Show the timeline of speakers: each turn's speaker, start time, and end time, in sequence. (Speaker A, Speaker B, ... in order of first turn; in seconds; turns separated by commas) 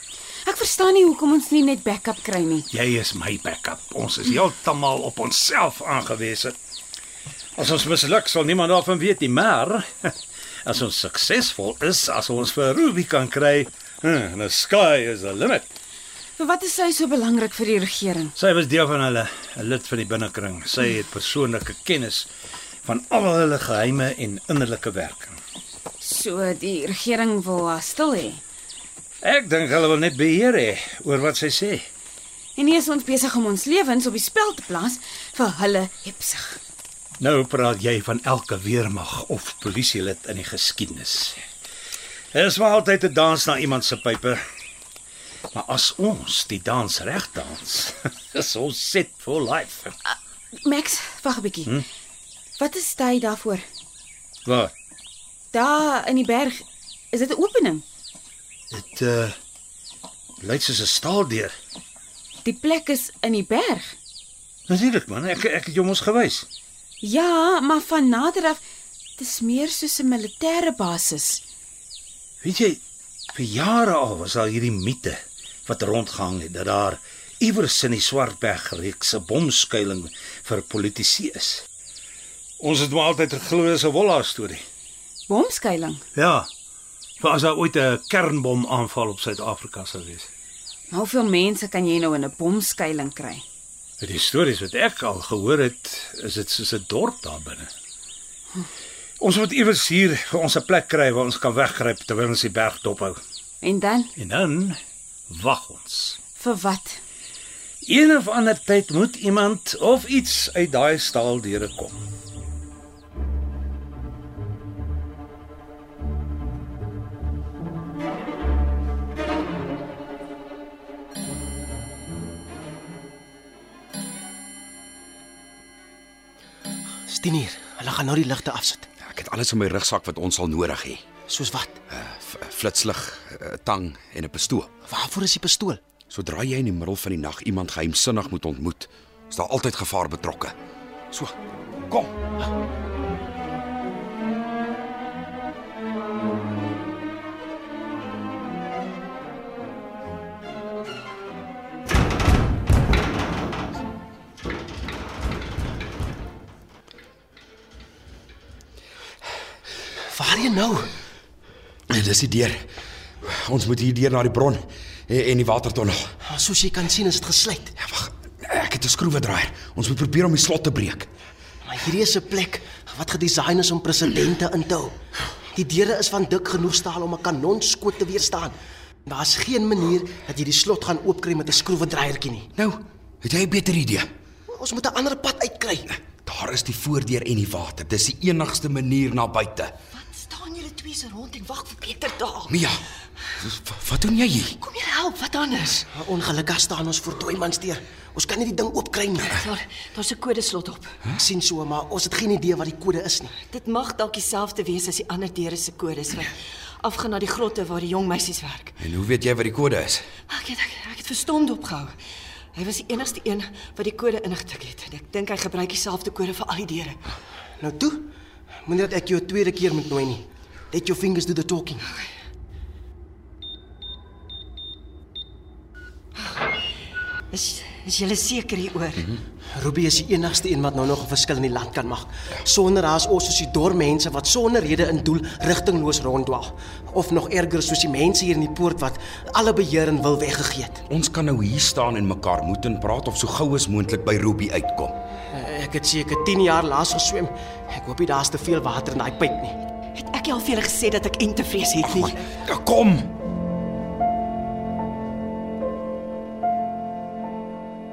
Speaker A: 0.5-2.7, Speaker B: 2.7-6.6, Speaker B: 7.6-15.7, Speaker A: 16.4-18.3, Speaker B: 18.4-22.3, Speaker B: 22.8-25.4, Speaker A: 26.0-28.4, Speaker B: 29.2-31.8, Speaker A: 32.6-36.6, Speaker B: 37.2-41.4, Speaker B: 42.3-44.4, Speaker B: 45.5-50.0, Speaker A: 50.1-51.8, Speaker A: 52.6-53.6, Speaker B: 54.5-54.7, Speaker A: 55.5-57.8, Speaker B: 58.7-59.3, Speaker B: 60.4-61.5, Speaker A: 62.4-64.0, Speaker B: 64.7-66.5, Speaker A: 67.0-68.6, Speaker A: 69.2-71.4, Speaker B: 72.4-72.8, Speaker B: 73.3-81.6, Speaker B: 82.6-84.6, Speaker A: 85.3-86.0, Speaker B: 86.2-86.5, Speaker B: 87.2-90.3, Speaker A: 90.9-93.4, Speaker B: 94.0-97.7, Speaker B: 99.2-103.2, Speaker A: 103.6-104.1, Speaker B: 104.2-104.8, Speaker B: 105.3-106.2, Speaker A: 106.4-107.0, Speaker B: 107.8-112.0, Speaker C: 127.1-128.9, Speaker D: 129.0-131.0, Speaker C: 131.3-131.8, Speaker D: 131.9-134.7, Speaker C: 134.8-135.8, Speaker D: 136.1-140.6, Speaker D: 141.1-141.4, Speaker D: 141.9-142.2, Speaker C: 160.1-160.9, Speaker D: 161.9-162.7, Speaker D: 163.2-166.1, Speaker C: 166.2-167.7, Speaker D: 167.8-171.1, Speaker C: 171.6-174.9, Speaker C: 175.5-178.6, Speaker C: 179.1-182.5, Speaker D: 182.6-184.1, Speaker C: 184.5-185.9, Speaker D: 186.0-189.8, Speaker E: 190.0-192.5, Speaker D: 192.5-192.8, Speaker D: 193.3-194.6, Speaker E: 194.7-195.9, Speaker C: 195.9-199.3, Speaker E: 199.3-201.0, Speaker C: 201.1-203.3, Speaker E: 203.4-206.3, Speaker E: 206.8-208.7, Speaker D: 208.8-210.1, Speaker E: 210.3-211.9, Speaker E: 212.5-217.0, Speaker C: 217.6-218.1, Speaker C: 218.7-221.8, Speaker E: 227.3-229.1, Speaker C: 229.5-240.8, Speaker D: 240.9-244.9, Speaker C: 245.3-249.7, Speaker E: 250.0-252.1, Speaker D: 251.8-253.1